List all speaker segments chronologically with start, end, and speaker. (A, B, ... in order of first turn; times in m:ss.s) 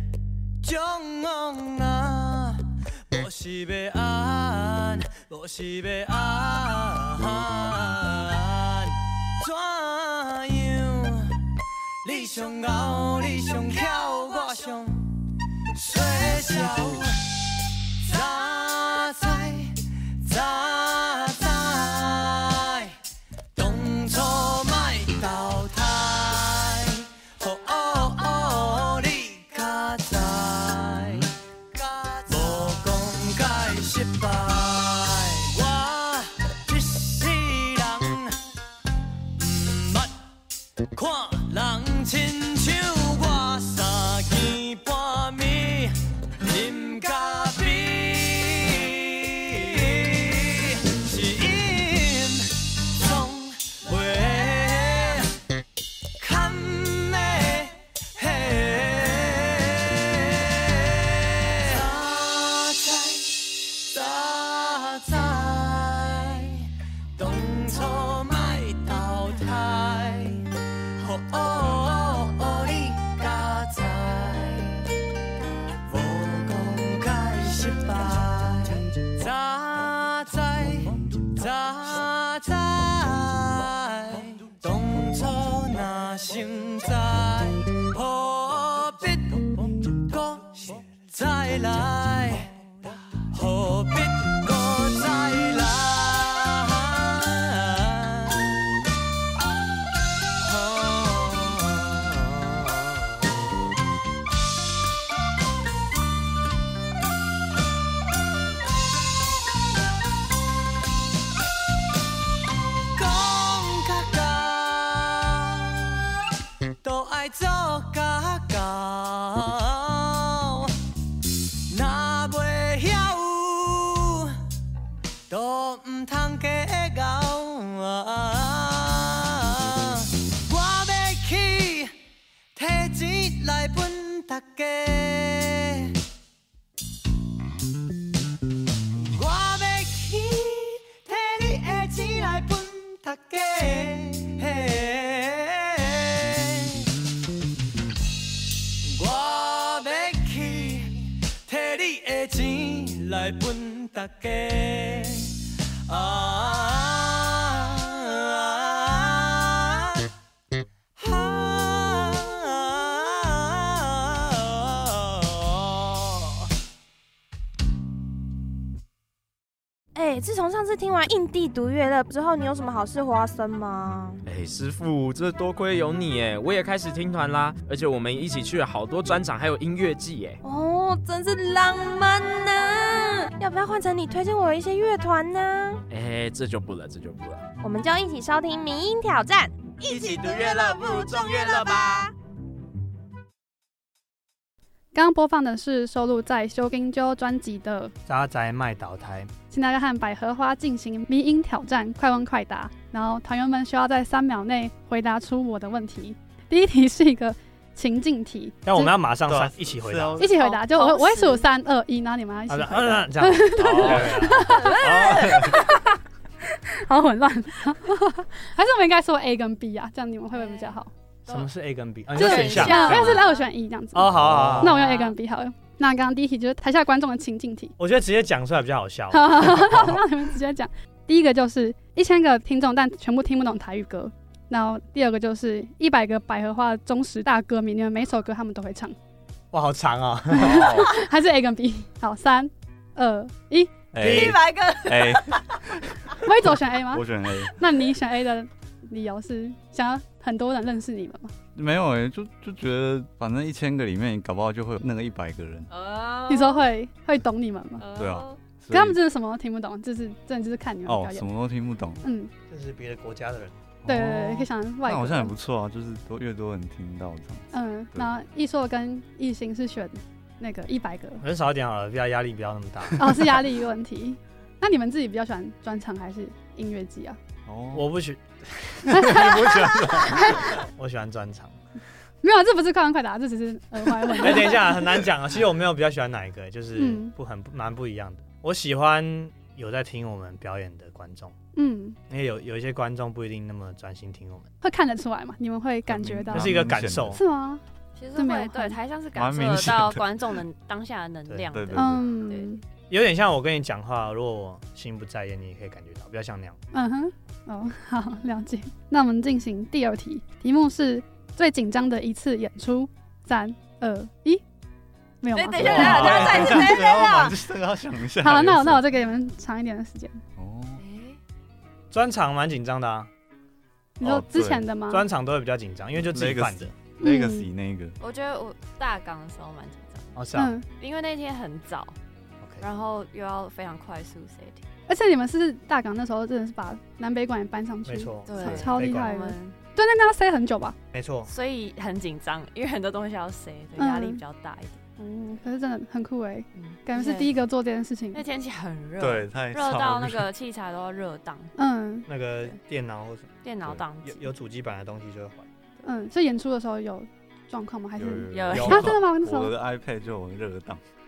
0:00.6-0:11.3 A
0:12.0-0:15.0 A
0:15.7-0:17.1 A
0:18.0-0:23.0 A
0:23.5-0:38.4 A
0:39.4-0:40.1 A
0:40.9-0:55.3 A
0:56.2-1:14.8 A
1:15.9-1:38.6 A
1:40.4-1:43.0 A
1:53.0-1:56.0 A
1:56.8-2:00.7 A
2:01.7-2:04.4 A
2:05.3-2:11.9 A
2:12.6-2:16.0 A
2:19.0-2:26.9 A
2:28.8-2:40.1 A
2:41.0-2:46.5 A
2:50.0-2:54.2 B
2:54.3-3:00.4 C
3:00.4-3:05.8 B
3:05.9-3:07.4 C
3:07.6-3:12.1 B
3:14.9-3:17.9 D
3:18.1-3:19.3 E
3:19.5-3:28.9 D
3:28.6-3:30.3 E
3:29.3-3:30.4 F
3:30.2-3:40.9 D
3:30.4-3:31.5 G
3:32.5-3:34.6 E
3:33.6-3:35.7 F
3:34.6-3:35.4 G
3:40.3-3:41.5 G
3:41.3-3:43.2 E
3:42.1-3:43.5 G
3:42.2-3:47.8 D
3:43.9-3:44.8 E
3:44.1-3:44.7 F
3:44.6-3:45.2 G
3:47.8-3:50.0 E
3:49.1-3:59.0 D
3:59.5-4:00.8 E
4:00.4-4:03.7 D
4:00.4-4:00.9 F
4:03.9-4:07.6 F
4:04.0-4:04.4 E
4:06.2-4:11.3 D
4:11.6-4:15.7 F
4:15.7-4:16.7 G
4:16.3-4:17.8 D
4:17.8-4:18.4 G
4:17.9-4:19.0 F
4:18.7-4:21.3 D
4:20.9-4:22.0 F
4:22.0-4:22.3 D
4:22.5-4:23.7 E
4:23.8-4:28.1 F
4:23.9-4:25.3 D
4:27.5-4:31.2 D
4:31.2-4:33.3 E
4:33.0-4:37.2 D
4:37.5-4:37.9 F
4:37.7-4:41.6 E
4:38.9-4:40.5 D
4:38.9-4:40.5 F
4:42.2-4:44.8 D
4:44.2-4:51.4 E
4:46.8-4:47.1 D
4:51.6-4:52.0 D
4:52.1-4:54.5 E
4:54.6-4:57.6 D
4:55.9-4:57.2 F
4:56.3-4:57.2 E
4:58.0-5:02.5 G
4:58.2-4:58.8 D
4:59.2-5:00.1 F
5:01.5-5:02.1 F
5:01.7-5:02.6 D
5:02.9-5:06.6 E
5:06.7-5:14.4 D
5:15.2-5:16.7 D
5:15.4-5:17.4 B
5:15.4-5:16.7 G
5:15.6-5:18.9 F
5:18.2-5:20.2 D
5:20.4-5:20.8 F
5:20.8-5:21.2 G
5:21.9-5:23.1 E
5:24.0-5:25.0 D
5:24.0-5:24.7 F
5:24.9-5:26.7 E
5:26.0-5:28.0 F
5:27.0-5:27.5 D
5:28.0-5:30.2 G
5:30.2-5:30.6 E
5:30.4-5:30.7 D
5:30.7-5:32.0 G
5:32.6-5:34.6 G
5:34.9-5:40.8 D
5:37.9-5:39.1 E
5:38.3-5:39.6 G
5:40.9-5:41.3 E
5:41.3-5:44.8 G
5:43.8-5:44.2 D
5:45.0-5:48.2 D
5:46.6-5:47.4 G
5:48.1-5:51.5 G
5:49.0-5:50.3 F
5:51.6-5:52.1 D
5:52.1-5:53.3 E
5:53.4-5:54.3 G
5:54.0-5:55.5 E
5:55.8-5:59.5 D
5:58.0-6:00.8 F
5:58.3-5:59.0 G
5:58.6-5:58.9 E